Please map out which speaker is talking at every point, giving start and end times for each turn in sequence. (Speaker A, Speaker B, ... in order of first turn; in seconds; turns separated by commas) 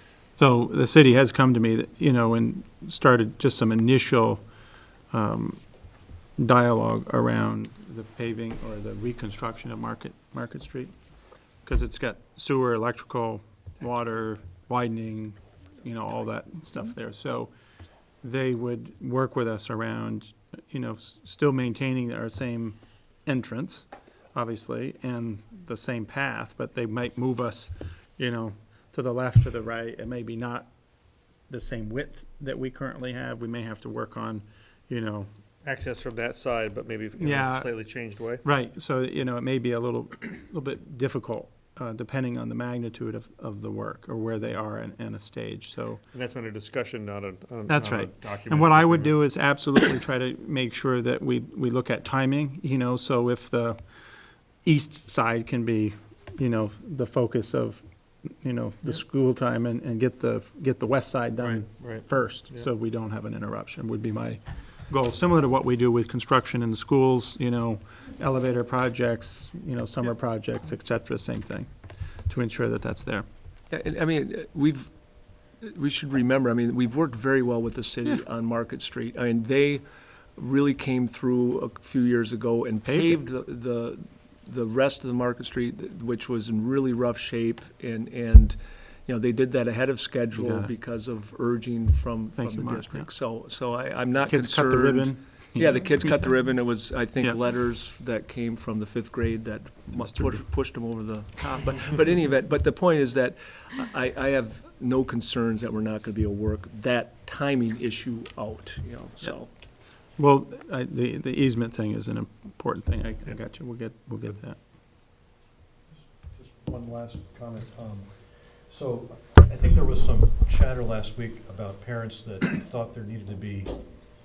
Speaker A: 0.3-4.4, Speaker A: 5.1-5.6, Speaker A: 6.4-10.9, Speaker A: 11.6-17.5, Speaker A: 18.2-30.7, Speaker A: 31.5-35.3, Speaker B: 35.6-38.5, Speaker A: 37.2-37.7, Speaker A: 38.4-46.0, Speaker B: 46.1-49.2, Speaker A: 47.7-53.8, Speaker A: 54.6-71.7, Speaker B: 61.4-62.7, Speaker A: 72.3-73.2, Speaker C: 73.7-74.9, Speaker C: 75.6-79.8, Speaker C: 80.4-109.5, Speaker A: 82.8-83.2, Speaker A: 90.3-90.7, Speaker A: 92.4-93.1, Speaker A: 94.3-96.0, Speaker A: 100.0-100.4, Speaker A: 110.2-114.6, Speaker D: 116.0-123.8